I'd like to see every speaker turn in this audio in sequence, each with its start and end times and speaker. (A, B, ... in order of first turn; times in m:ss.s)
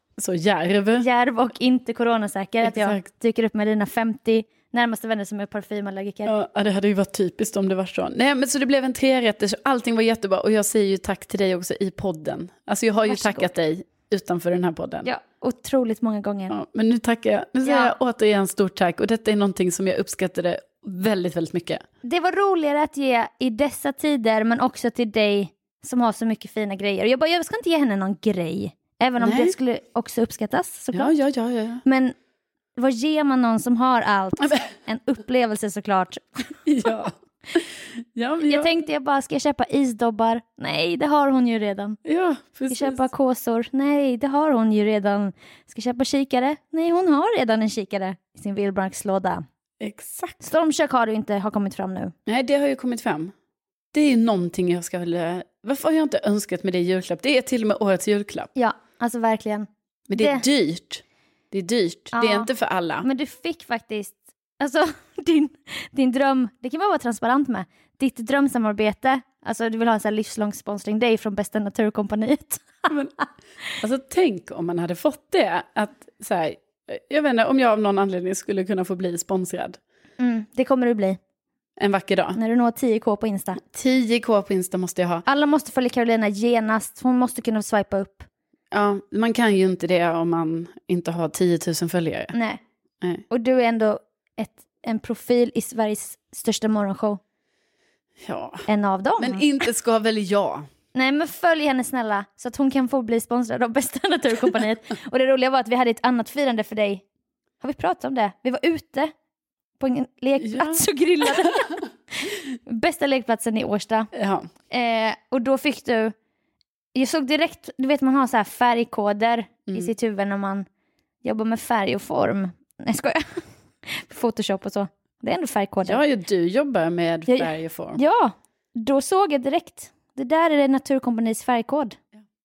0:00.2-0:01.1 A
0:01.0-0:06.3 B
0:02.6-0:03.1 A
0:06.3-0:15.1 A
0:13.0-0:13.5 B
0:15.0-0:16.5 B
0:16.5-0:21.8 A
0:17.6-0:17.9 B
0:22.0-0:31.1 B
0:29.2-0:29.5 A
0:30.9-0:31.8 A
0:31.8-0:32.2 B
0:32.8-0:36.5 B
0:36.6-0:38.7 A
0:38.4-0:42.0 B
0:42.0-0:43.0 A
0:42.7-0:49.4 B
0:49.8-0:50.4 A
0:50.4-0:52.1 B
0:52.3-0:53.3 A
0:53.9-0:58.5 A
0:58.6-1:00.4 B
1:00.1-1:03.1 A
1:02.1-1:02.5 B
1:03.0-1:12.9 B
1:12.9-1:13.1 A
1:13.8-1:19.8 A
1:20.2-1:21.2 B
1:21.8-1:22.4 A
1:22.4-1:23.6 B
1:23.6-1:25.2 A
1:25.3-1:28.3 B
1:28.7-1:32.3 A
1:32.3-1:32.6 B
1:33.3-1:37.2 B
1:38.2-1:38.7 A
1:38.7-1:39.4 B
1:39.2-1:40.7 A
1:41.0-1:47.0 B
1:47.6-1:49.1 B
1:49.8-1:51.7 B
1:50.4-1:51.7 A
1:52.7-1:54.1 B
1:54.1-1:54.5 A
1:54.7-1:56.1 B
1:57.0-2:00.7 B
2:01.2-2:06.0 B
2:05.8-2:08.0 A
2:07.3-2:12.0 B